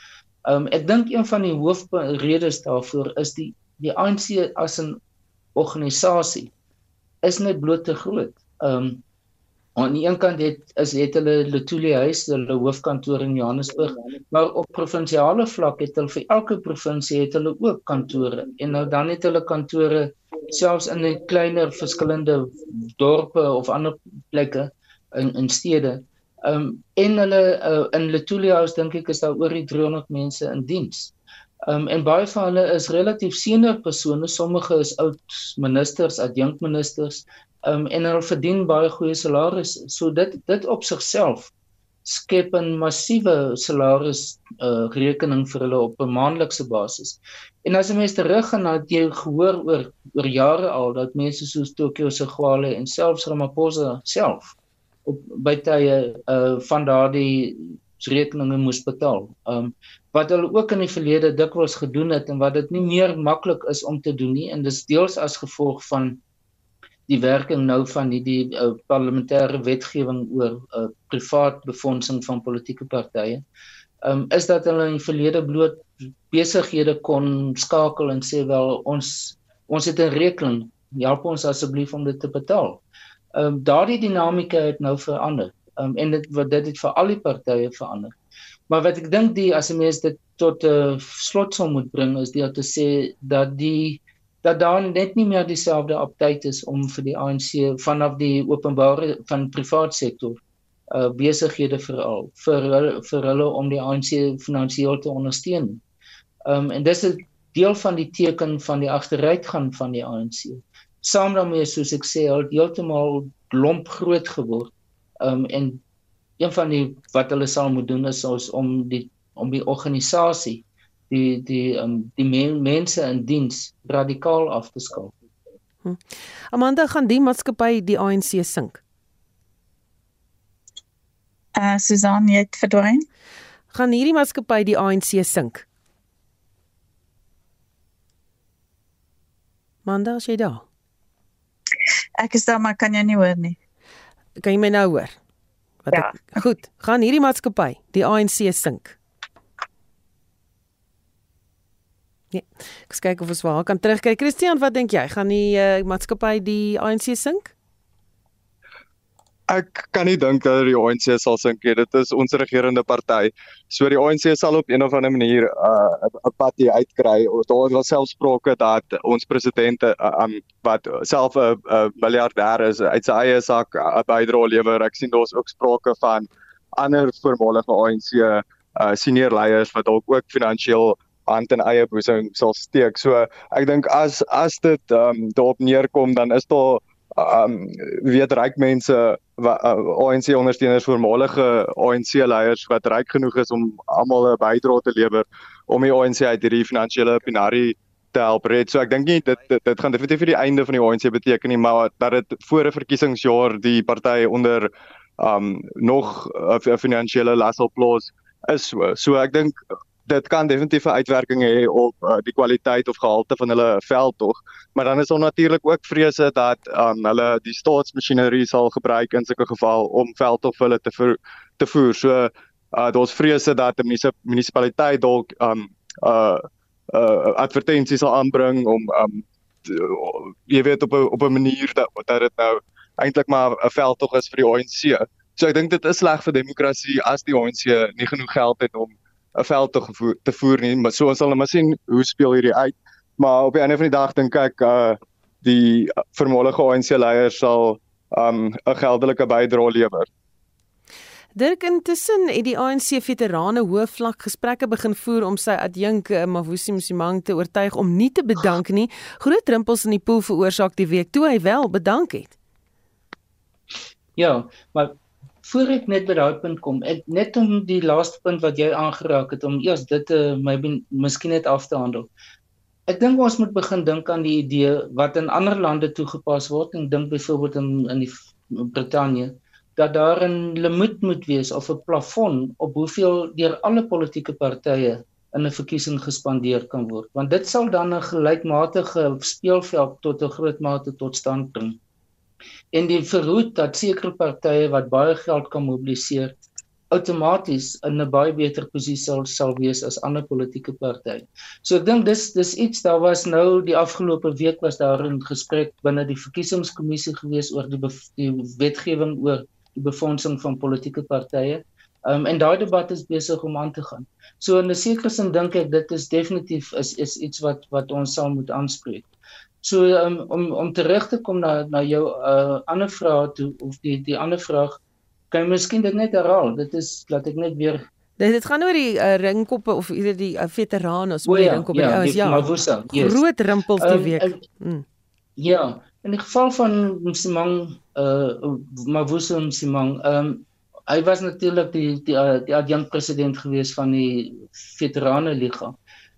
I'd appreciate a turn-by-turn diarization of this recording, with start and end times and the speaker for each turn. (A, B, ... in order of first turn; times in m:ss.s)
0:00.5-0:05.0 A
0:05.6-0:06.5 A
0:07.2-0:09.0 A
0:09.8-0:31.1 A
0:31.7-0:41.5 A
0:42.0-0:54.5 A
0:55.1-1:06.2 A
1:07.1-1:13.4 A
1:14.0-1:22.8 A
1:23.4-1:28.1 A
1:28.7-1:40.4 A
1:40.9-1:45.8 A
1:46.5-1:54.7 A
1:55.2-1:55.8 A
1:56.4-2:05.1 A
2:06.5-2:08.8 B
2:11.6-2:13.0 C
2:13.7-2:15.6 B
2:19.8-2:20.6 B
2:22.2-2:23.6 C
2:24.4-2:25.2 B
2:25.8-2:29.0 B
2:25.9-2:26.4 C
2:32.3-2:37.5 B
2:39.5-3:29.6 D
3:30.1-4:10.1 D
4:11.4-4:22.3 B
4:24.2-4:32.1 A
4:32.9-4:51.8 A
4:52.7-4:56.4 A
4:56.9-5:19.1 A
5:19.6-5:24.8 A
5:25.3-5:27.8 A
5:28.2-5:34.8 B
5:31.2-5:33.2 A
5:33.8-5:34.4 A
5:35.4-5:45.8 A